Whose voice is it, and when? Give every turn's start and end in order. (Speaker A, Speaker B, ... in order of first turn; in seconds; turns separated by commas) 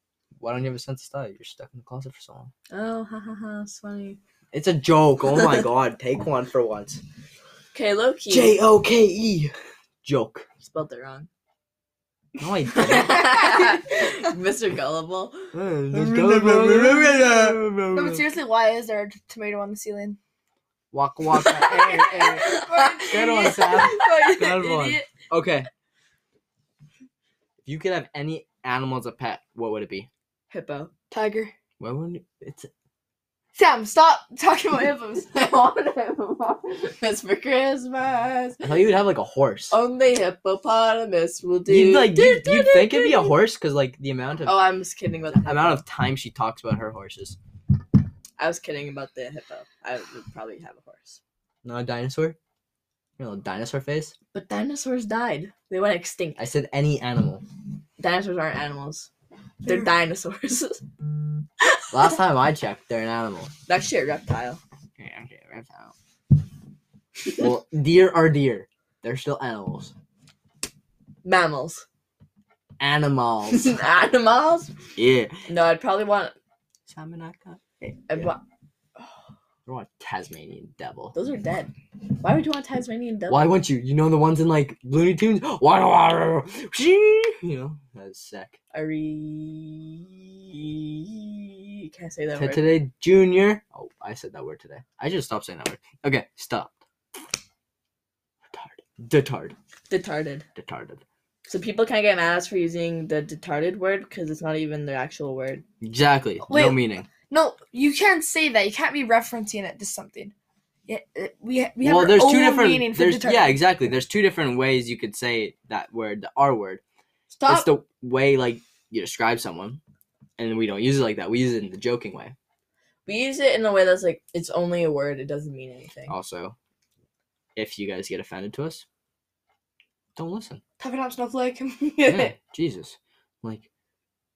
Speaker A: 0.4-2.5, Speaker B: 2.7-4.2, Speaker A: 4.5-7.0, Speaker B: 7.7-8.6, Speaker A: 8.3-9.5, Speaker A: 10.0-10.4, Speaker B: 10.6-11.3, Speaker A: 12.4-13.5, Speaker B: 12.7-15.5, Speaker A: 15.5-18.3, Speaker C: 16.1-20.2, Speaker A: 20.9-25.7, Speaker B: 21.4-25.1, Speaker C: 21.4-23.9, Speaker A: 27.6-30.1, Speaker B: 30.5-30.9, Speaker C: 31.1-31.5, Speaker A: 31.8-32.7, Speaker C: 33.5-35.4, Speaker B: 35.1-38.8, Speaker A: 38.6-39.7, Speaker B: 39.7-43.3, Speaker A: 41.7-44.5, Speaker B: 44.4-45.8, Speaker A: 45.3-47.4, Speaker B: 48.4-51.2, Speaker A: 51.6-52.4, Speaker A: 53.2-54.1, Speaker B: 54.3-56.4, Speaker A: 56.4-57.4, Speaker B: 58.0-59.1, Speaker B: 59.6-60.8, Speaker A: 61.9-63.5, Speaker B: 63.7-64.6, Speaker A: 65.0-65.9, Speaker A: 67.3-69.9, Speaker B: 71.2-71.8, Speaker A: 72.8-73.7, Speaker B: 73.5-74.9, Speaker A: 75.0-75.4, Speaker B: 75.5-76.3, Speaker A: 76.9-78.3, Speaker B: 78.1-78.4, Speaker A: 79.7-81.1, Speaker B: 81.1-83.5, Speaker A: 83.3-88.6, Speaker B: 88.7-92.6, Speaker A: 92.3-96.8, Speaker A: 98.5-99.5, Speaker B: 99.9-100.5, Speaker A: 100.6-101.0, Speaker B: 101.5-105.6, Speaker A: 105.8-107.1, Speaker C: 106.5-110.3, Speaker C: 110.9-113.6, Speaker A: 111.8-116.8, Speaker C: 117.3-117.7, Speaker A: 117.5-119.8, Speaker A: 120.4-122.3, Speaker B: 123.1-126.1, Speaker A: 126.1-126.5, Speaker A: 127.5-128.8, Speaker A: 130.2-130.6, Speaker C: 130.8-132.3, Speaker A: 132.1-133.7